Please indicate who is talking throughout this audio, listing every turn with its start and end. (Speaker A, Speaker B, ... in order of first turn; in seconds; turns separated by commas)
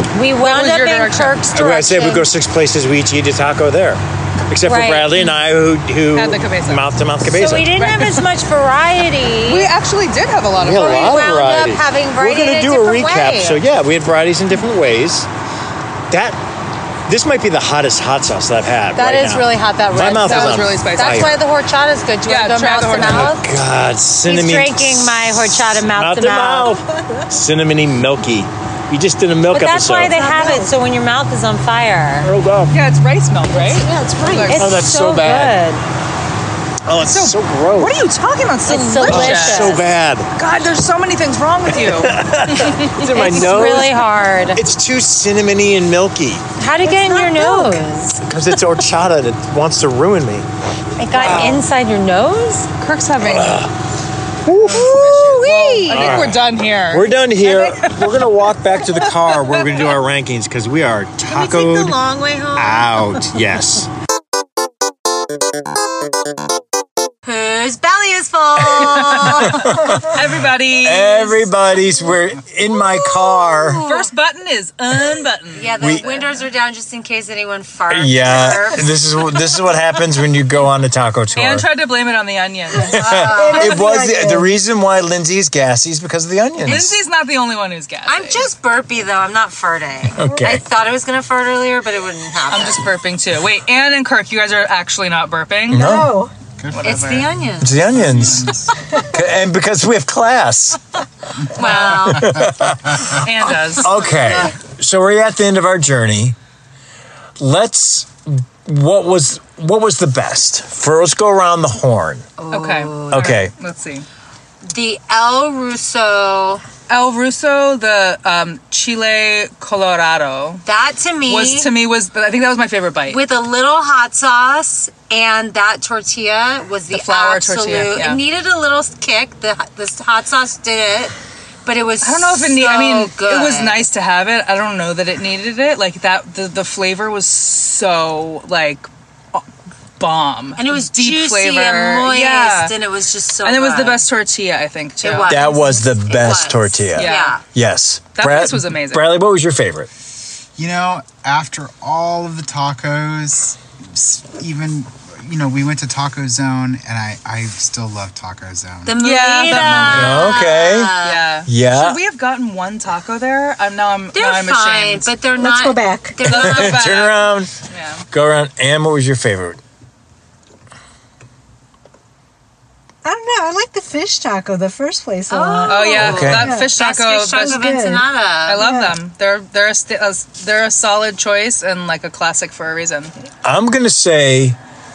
Speaker A: 0.1-2.3, Speaker B: 0.4-1.4, Speaker C: 1.5-7.7, Speaker A: 4.7-5.2, Speaker B: 6.1-6.9, Speaker A: 7.2-9.7, Speaker B: 7.8-8.2, Speaker B: 9.5-11.3, Speaker C: 10.6-15.3, Speaker A: 10.7-13.6, Speaker C: 16.1-16.4, Speaker C: 17.1-21.4, Speaker A: 18.9-23.5, Speaker B: 20.2-21.4, Speaker B: 22.2-23.4, Speaker C: 23.0-30.2, Speaker A: 24.2-26.8, Speaker A: 29.5-32.3, Speaker D: 30.1-30.7, Speaker C: 32.2-32.8, Speaker B: 32.7-34.8, Speaker A: 33.8-35.8, Speaker D: 33.8-34.2, Speaker C: 34.5-35.6, Speaker C: 36.9-38.0, Speaker B: 37.0-39.8, Speaker A: 38.6-39.9, Speaker C: 39.1-40.3, Speaker B: 40.3-42.8, Speaker C: 41.7-46.4, Speaker A: 42.8-44.6, Speaker A: 46.6-48.2, Speaker D: 46.9-47.8, Speaker C: 48.2-50.5, Speaker A: 51.0-52.7, Speaker B: 51.1-51.6, Speaker B: 52.8-53.7, Speaker C: 53.2-53.7, Speaker C: 54.4-62.0, Speaker B: 54.5-58.1, Speaker A: 54.8-56.3, Speaker B: 59.0-60.0, Speaker A: 61.2-63.3, Speaker C: 62.5-63.9, Speaker A: 67.2-69.9, Speaker C: 68.8-73.8, Speaker B: 69.3-71.5, Speaker A: 72.7-74.1, Speaker B: 73.8-76.3, Speaker A: 75.5-79.0, Speaker C: 75.8-76.0, Speaker C: 77.9-81.7, Speaker B: 81.3-83.0, Speaker A: 82.9-83.8, Speaker D: 82.9-84.5, Speaker C: 82.9-87.0, Speaker B: 86.6-88.5, Speaker A: 88.0-92.8, Speaker C: 90.2-90.6, Speaker B: 92.5-96.0, Speaker C: 95.7-96.2, Speaker D: 95.7-96.3, Speaker E: 96.6-96.9, Speaker B: 96.7-97.3, Speaker A: 96.8-98.0, Speaker C: 97.6-100.8, Speaker E: 97.6-98.8, Speaker A: 101.5-102.5, Speaker B: 101.6-102.3, Speaker E: 101.6-102.4, Speaker C: 102.1-103.2, Speaker B: 103.0-104.2, Speaker C: 103.7-106.3, Speaker C: 107.4-112.3, Speaker A: 112.4-113.4, Speaker B: 112.5-114.0, Speaker C: 113.1-113.5, Speaker A: 114.6-116.6, Speaker B: 116.9-120.6, Speaker A: 120.6-121.7, Speaker B: 121.3-123.2, Speaker A: 123.1-131.1, Speaker B: 126.9-128.2, Speaker A: 131.7-133.8, Speaker B: 132.0-139.4, Speaker B: 140.0-142.8, Speaker A: 140.6-144.0, Speaker B: 143.4-145.5, Speaker A: 145.0-147.4, Speaker C: 145.3-149.9, Speaker B: 146.9-147.4, Speaker B: 148.1-149.1, Speaker E: 150.6-160.1, Speaker A: 158.8-161.3, Speaker B: 159.0-160.3, Speaker C: 159.9-160.9, Speaker B: 161.0-165.1, Speaker C: 161.4-162.0, Speaker A: 164.1-167.0, Speaker D: 165.3-166.2, Speaker C: 166.2-167.5, Speaker B: 166.2-168.0, Speaker C: 168.1-169.6, Speaker D: 173.0-179.0, Speaker A: 175.3-178.7, Speaker B: 175.7-177.7, Speaker C: 176.0-176.5, Speaker B: 178.5-183.1, Speaker C: 183.4-184.6